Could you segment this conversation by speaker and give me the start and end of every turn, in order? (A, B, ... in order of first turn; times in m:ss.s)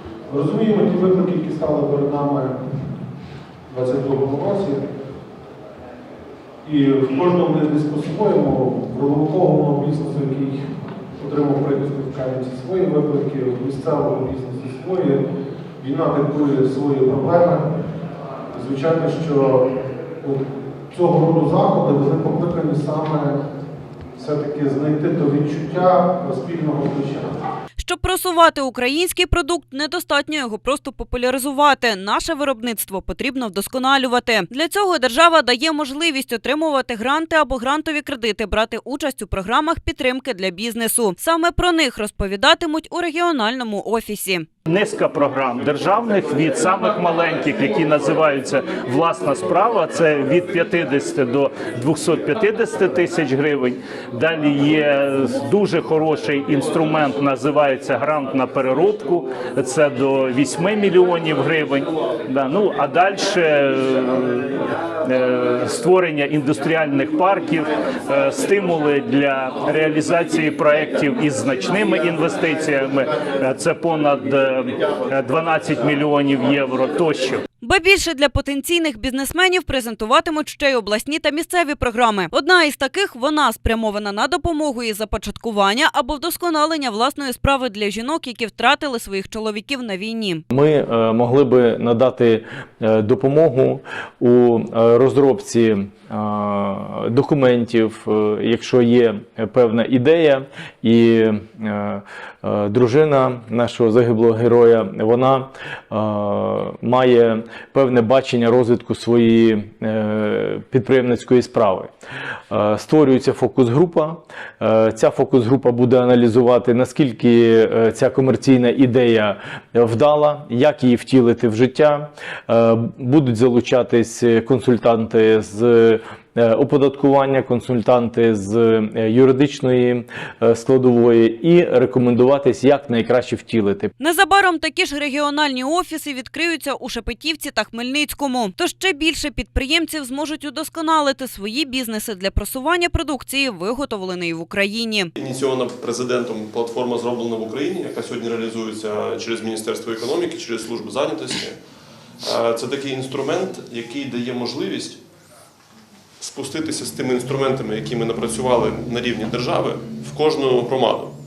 0:00.3-0:02.6 A
0:03.7-0:04.8 A
0:06.6-0:10.6 A
0:11.2-0:15.2 A
0:15.8-0:17.6 A
0:18.5-0:19.7 A
0:20.2-0:23.4 A
0:24.2-0:27.4 A
0:27.8-0:44.5 B
0:44.7-1:17.4 C
1:17.6-1:30.4 B
1:30.5-1:51.9 D
1:52.5-2:13.9 D
2:14.0-2:25.1 B
2:25.2-2:31.5 E
2:32.2-2:35.0 E
2:36.2-2:41.1 E